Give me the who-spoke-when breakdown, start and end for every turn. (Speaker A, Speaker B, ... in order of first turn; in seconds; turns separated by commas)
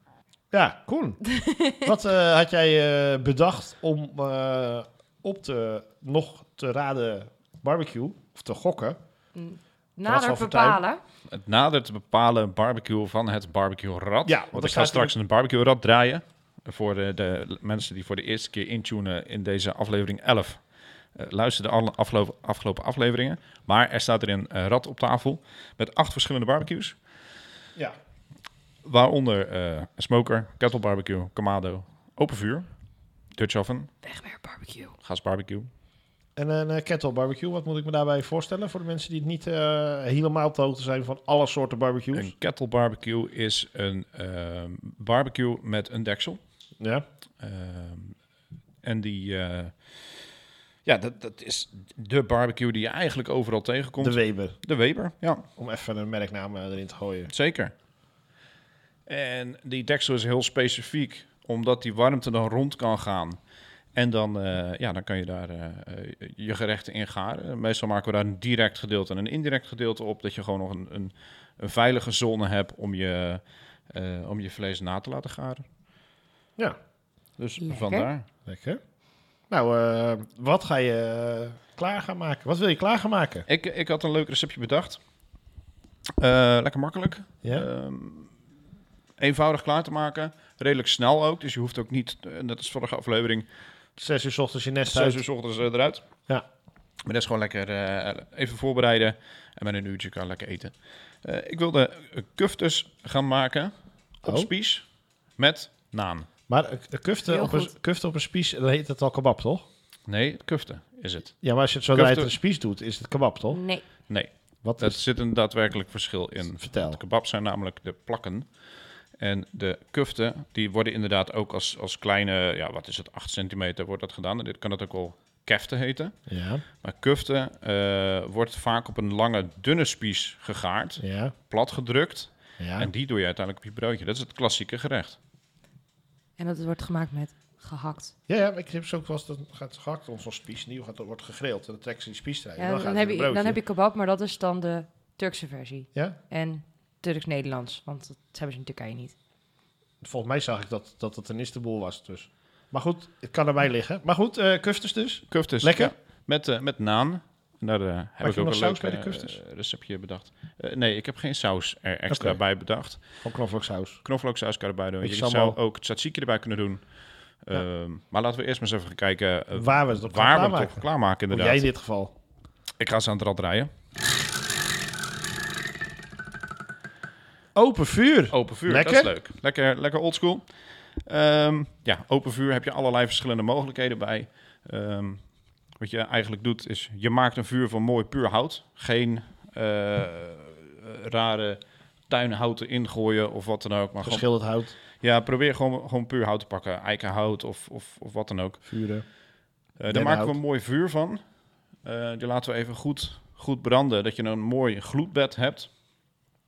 Speaker A: 0.5-9.0, Speaker B: 1.2-1.9, Speaker B: 9.3-11.0, Speaker A: 10.1-10.8, Speaker C: 11.3-20.6, Speaker A: 14.2-15.1, Speaker C: 21.1-26.9, Speaker C: 28.8-32.7, Speaker C: 33.3-33.9, Speaker B: 34.0-34.9, Speaker C: 35.0-35.7, Speaker A: 36.4-42.3, Speaker C: 42.1-46.4, Speaker A: 46.8-47.0, Speaker C: 47.4-48.1, Speaker C: 48.8-50.2, Speaker C: 50.8-55.4, Speaker A: 54.0-54.6, Speaker A: 55.6-57.3, Speaker C: 57.3-57.7, Speaker C: 59.1-63.4, Speaker C: 63.9-75.6, Speaker C: 77.4-78.2, Speaker B: 77.6-78.1, Speaker A: 78.5-78.8, Speaker A: 79.5-83.5, Speaker C: 83.5-85.0, Speaker C: 86.2-88.3, Speaker C: 89.2-93.5, Speaker A: 94.0-95.2, Speaker C: 94.9-96.1, Speaker C: 97.0-104.8, Speaker C: 105.4-106.3, Speaker A: 106.5-109.7, Speaker B: 107.3-107.7, Speaker C: 110.1-111.4, Speaker A: 111.4-113.6, Speaker C: 111.9-112.3, Speaker B: 113.5-113.8, Speaker C: 114.1-118.5, Speaker A: 114.6-115.0, Speaker A: 116.6-117.0, Speaker C: 119.2-126.2, Speaker A: 126.3-126.6, Speaker C: 126.8-135.2, Speaker A: 131.0-131.3, Speaker A: 132.6-132.9, Speaker B: 136.4-138.1, Speaker A: 138.3-143.6, Speaker B: 142.6-149.2, Speaker A: 150.0-155.9, Speaker C: 155.3-163.2, Speaker A: 158.2-159.4, Speaker A: 162.1-162.4, Speaker A: 163.2-164.0, Speaker C: 164.0-166.8, Speaker A: 165.0-165.6, Speaker C: 167.4-171.7, Speaker A: 169.5-172.1, Speaker C: 172.8-173.7, Speaker A: 177.5-179.1, Speaker C: 178.3-180.4, Speaker C: 181.1-185.2, Speaker C: 185.8-194.3, Speaker A: 194.0-194.8, Speaker C: 195.0-198.6, Speaker A: 198.7-199.1, Speaker C: 199.8-201.2, Speaker A: 199.9-200.3, Speaker C: 201.8-205.7